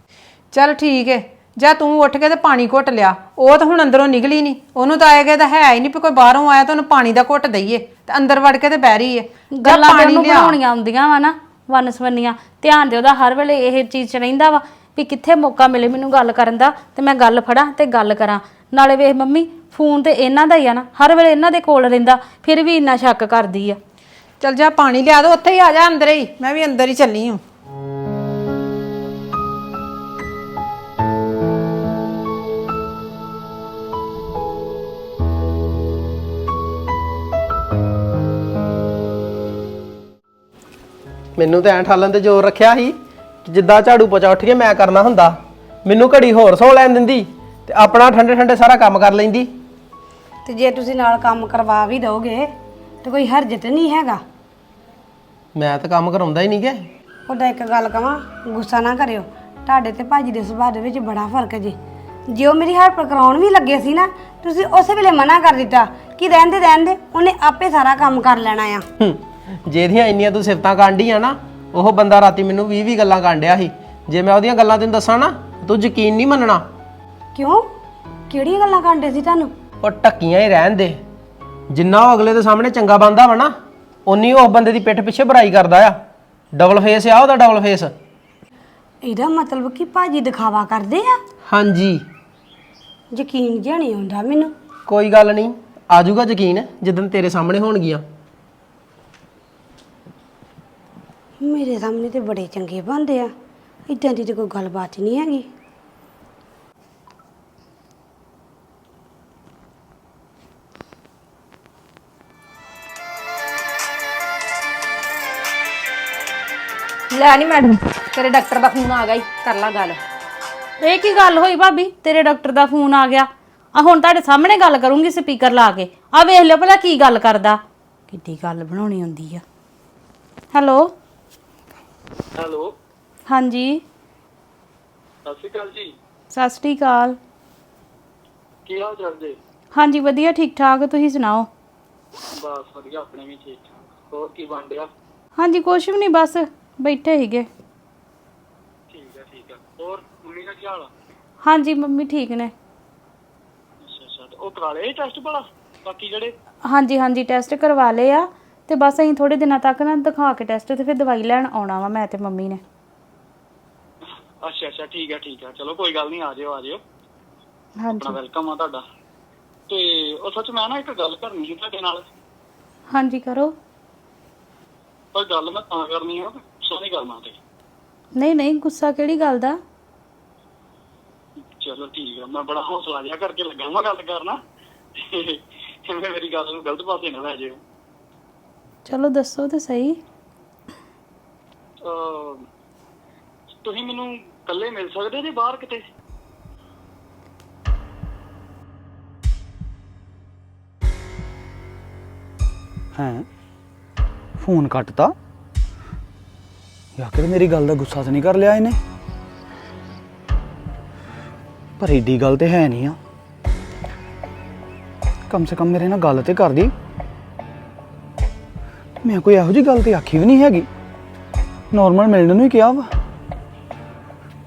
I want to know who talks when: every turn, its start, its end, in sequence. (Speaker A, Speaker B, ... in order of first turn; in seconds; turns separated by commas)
Speaker A: 0.5-10.6, Speaker B: 9.5-23.8, Speaker A: 24.4-27.4, Speaker C: 41.4-49.5, Speaker D: 50.5-52.5, Speaker D: 53.0-54.2, Speaker C: 55.5-56.9, Speaker D: 57.3-61.8, Speaker D: 62.3-68.8, Speaker C: 69.0-76.6, Speaker D: 77.3-77.7, Speaker D: 78.3-79.5, Speaker C: 79.8-81.0, Speaker C: 81.7-83.5, Speaker C: 84.0-86.0, Speaker C: 86.5-87.9, Speaker D: 89.0-91.2, Speaker C: 91.5-92.0, Speaker D: 93.1-94.5, Speaker C: 94.9-98.0, Speaker D: 101.4-103.3, Speaker D: 103.9-105.5, Speaker E: 117.1-120.0, Speaker B: 120.8-129.4, Speaker B: 130.5-130.9, Speaker F: 132.3-132.7, Speaker B: 133.3-133.8, Speaker F: 135.2-135.9, Speaker B: 136.3-137.2, Speaker F: 138.7-139.4, Speaker B: 139.7-141.5, Speaker F: 142.3-144.9, Speaker B: 145.4-147.5, Speaker F: 148.9-150.9, Speaker B: 151.4-152.5, Speaker F: 153.8-156.3, Speaker B: 156.7-162.6, Speaker F: 164.4-166.8, Speaker B: 167.8-168.2, Speaker F: 167.9-168.8, Speaker F: 169.7-172.0, Speaker B: 172.9-173.5, Speaker F: 175.1-177.4, Speaker B: 178.2-179.6, Speaker F: 181.4-184.4, Speaker F: 185.0-187.6, Speaker B: 188.8-190.0, Speaker F: 191.8-192.4, Speaker F: 193.6-195.9, Speaker G: 202.9-203.3, Speaker G: 204.4-205.2, Speaker G: 206.9-208.8, Speaker G: 211.8-213.0, Speaker G: 215.3-216.7, Speaker G: 219.0-220.7, Speaker G: 221.7-222.9